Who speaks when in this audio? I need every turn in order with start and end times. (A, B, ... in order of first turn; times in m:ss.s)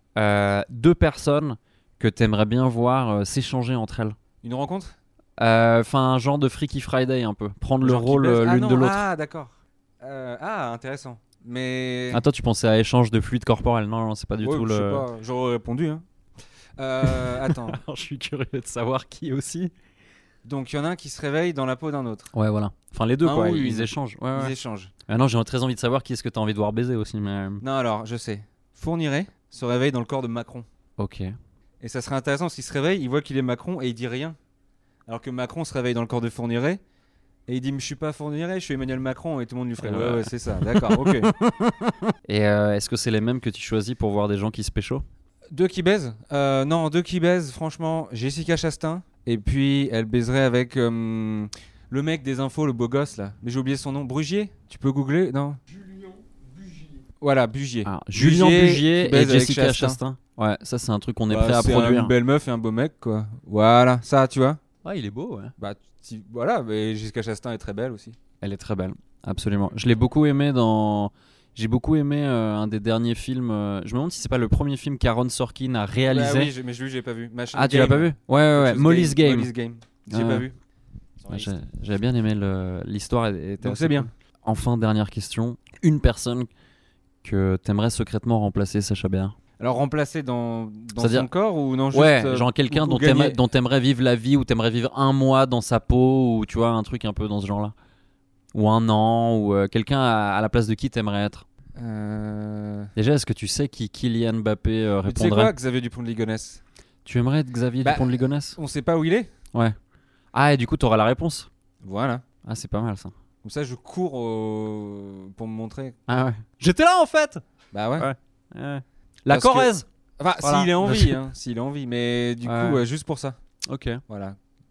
0:00.2-0:04.2 A
0:04.4-0:05.0 B
0:05.4-0:09.0 A
0:07.8-0:12.2 B
0:12.1-0:15.0 A
0:14.4-0:16.0 B
0:16.8-0:17.8 B
0:17.0-0:19.7 A
0:20.4-0:22.3 B
0:22.3-0:24.5 A
0:23.2-0:24.9 B
0:25.1-0:27.6 A
0:27.6-0:30.6 B
0:31.0-0:31.3 A
0:31.8-0:34.4 B
0:35.1-0:36.8 B
0:37.5-0:41.4 B
0:39.8-0:41.3 A
0:42.2-0:45.0 A
0:45.5-0:55.6 B
0:57.2-1:00.0 B
0:57.8-1:02.1 A
1:01.3-1:04.6 B
1:04.8-1:05.5 A
1:05.6-1:08.2 B
1:08.4-1:16.5 A
1:16.1-1:20.5 B
1:17.5-1:19.5 A
1:20.1-1:20.4 A
1:21.2-1:21.5 B
1:21.3-1:26.5 A
1:23.6-1:24.1 B
1:27.2-1:29.4 A
1:29.6-1:33.4 B
1:31.0-1:31.3 A
1:31.9-1:37.7 A
1:38.5-1:41.4 A
1:41.8-1:42.9 B
1:43.0-1:45.5 A
1:45.0-1:46.6 B
1:47.0-1:48.6 A
1:47.8-1:49.3 B
1:50.3-1:51.5 A
1:51.8-1:52.2 B
1:52.4-1:53.1 A
1:53.4-1:56.0 B
1:56.1-1:57.4 A
1:57.7-1:58.1 B
1:58.0-1:59.8 A
1:59.3-2:03.4 B
2:00.4-2:01.2 A
2:02.4-2:02.8 A
2:03.7-2:04.0 A
2:04.1-2:04.4 B